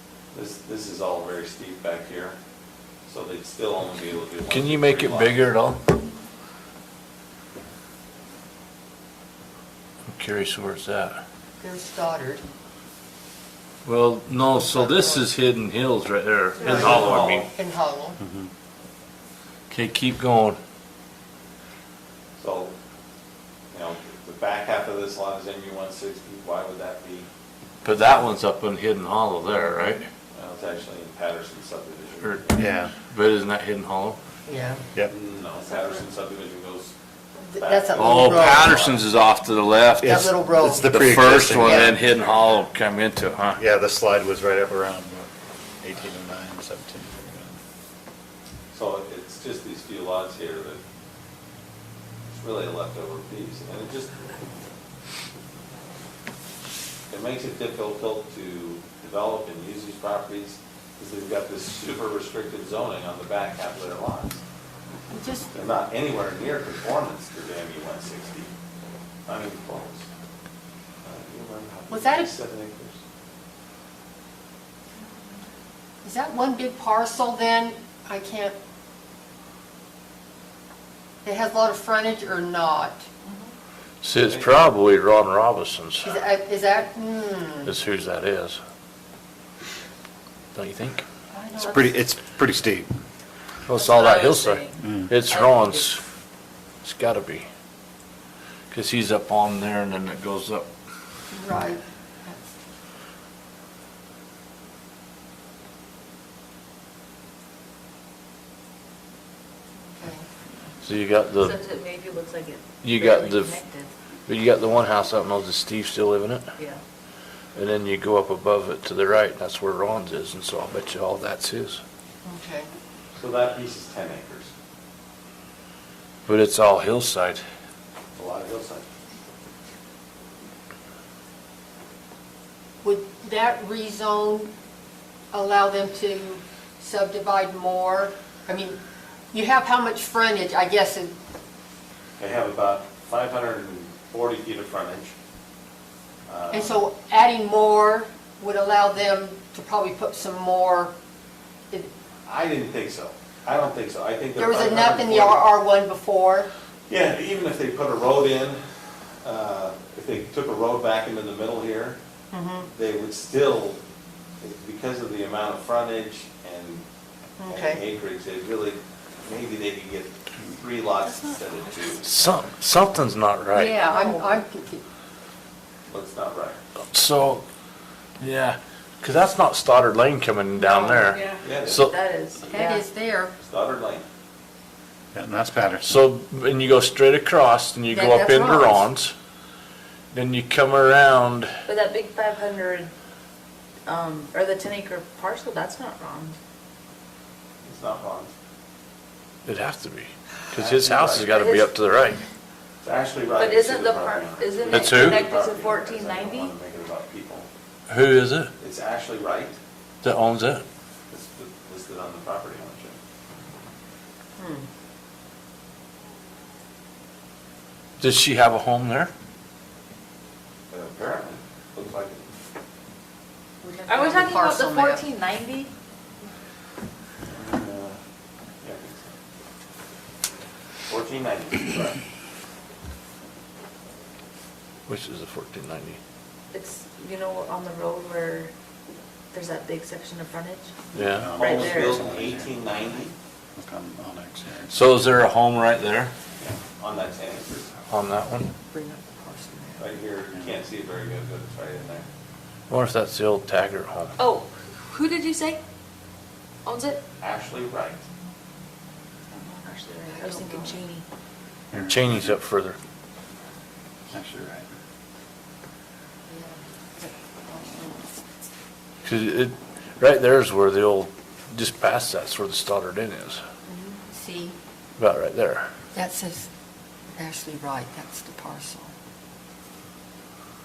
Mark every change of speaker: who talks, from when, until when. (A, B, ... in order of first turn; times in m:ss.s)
0:00.3-0:02.4 A
0:03.1-0:05.4 A
0:04.5-0:05.9 B
0:10.1-0:11.2 B
0:11.6-0:12.4 C
0:13.8-0:17.5 B
0:14.6-0:15.3 C
0:16.6-0:18.2 C
0:16.7-0:17.4 A
0:18.2-0:18.5 D
0:19.7-0:20.6 B
0:22.4-0:22.7 A
0:23.7-0:27.3 A
0:27.8-0:30.1 B
0:30.3-0:32.7 A
0:32.2-0:34.2 B
0:32.6-0:32.9 D
0:34.5-0:34.8 C
0:35.1-0:36.9 A
0:37.4-0:39.0 C
0:37.6-0:39.0 A
0:38.0-0:40.3 B
0:40.0-0:41.0 C
0:40.0-0:42.0 D
0:40.8-0:43.6 B
0:41.6-0:42.0 C
0:43.6-0:45.3 D
0:45.8-0:47.6 D
0:48.7-0:50.8 A
0:52.3-0:54.2 A
0:57.1-1:04.4 A
1:05.1-1:05.5 C
1:05.5-1:08.5 A
1:09.3-1:10.1 A
1:11.0-1:13.0 A
1:11.9-1:12.3 C
1:16.0-1:18.6 C
1:21.2-1:23.0 C
1:24.0-1:26.2 B
1:24.2-1:24.5 A
1:26.0-1:27.7 C
1:27.6-1:28.6 B
1:30.6-1:31.0 B
1:31.3-1:32.0 C
1:31.6-1:32.9 D
1:33.7-1:36.0 B
1:33.7-1:35.8 E
1:34.8-1:35.1 D
1:36.8-1:37.4 B
1:38.7-1:40.7 B
1:41.3-1:42.5 C
1:49.8-1:50.3 C
1:50.8-1:51.6 B
1:51.4-1:53.9 E
1:52.8-1:53.6 B
1:54.3-1:56.4 B
1:57.6-2:01.8 B
2:02.2-2:02.7 C
2:03.2-2:04.5 A
2:06.2-2:07.4 B
2:08.1-2:08.8 A
2:12.8-2:14.5 C
2:15.3-2:18.8 C
2:19.3-2:21.1 C
2:22.2-2:25.1 A
2:26.3-2:26.8 A
2:26.5-2:30.9 C
2:32.2-2:35.4 A
2:34.4-2:36.5 C
2:36.9-2:38.6 A
2:39.2-2:42.0 A
2:42.3-2:42.7 C
2:42.7-2:43.8 A
2:44.4-2:46.8 A
2:47.4-2:47.8 C
2:47.5-2:52.1 A
2:51.1-2:51.4 C
2:52.0-2:53.8 B
2:53.5-2:54.8 C
2:53.8-2:54.3 E
2:55.9-2:56.6 A
2:56.9-2:57.4 B
2:58.2-3:02.0 B
3:00.6-3:01.2 C
3:01.2-3:02.8 E
3:01.4-3:01.8 A
3:02.5-3:03.3 C
3:03.4-3:04.0 A
3:05.1-3:05.9 D
3:05.8-3:09.1 B
3:07.9-3:08.9 C
3:10.1-3:11.5 B
3:11.7-3:12.9 E
3:13.8-3:16.4 E
3:17.6-3:18.3 A
3:19.4-3:22.2 B
3:20.5-3:21.3 A
3:21.2-3:21.7 E
3:22.8-3:27.5 A
3:23.4-3:26.5 E
3:24.7-3:25.2 B
3:27.9-3:28.5 B
3:28.6-3:29.6 A
3:30.0-3:30.6 B
3:31.1-3:33.0 A
3:34.4-3:34.7 C
3:38.0-3:39.1 B
3:40.7-3:42.2 A
3:43.6-3:45.1 C
3:43.9-3:45.7 E
3:47.2-3:48.0 A
3:48.6-3:49.1 A
3:50.9-3:52.0 A
3:54.9-3:56.0 B
3:56.5-3:58.5 E
3:59.3-4:00.7 E
4:00.9-4:01.4 B
4:01.0-4:02.6 D
4:01.4-4:02.0 E
4:01.4-4:03.1 A
4:03.6-4:04.8 D
4:04.7-4:06.1 B
4:06.4-4:07.7 A
4:07.9-4:08.5 B
4:08.7-4:09.9 C
4:09.8-4:12.1 A
4:12.7-4:14.1 B
4:14.2-4:15.6 E
4:16.6-4:17.0 E
4:17.2-4:18.0 A
4:19.4-4:21.0 E
4:20.1-4:20.8 C
4:21.7-4:22.4 D
4:21.8-4:22.8 B
4:24.1-4:24.7 D
4:26.3-4:28.3 C
4:29.0-4:33.4 B
4:33.7-4:34.6 C
4:35.0-4:35.7 B
4:35.9-4:36.5 C
4:37.1-4:38.9 C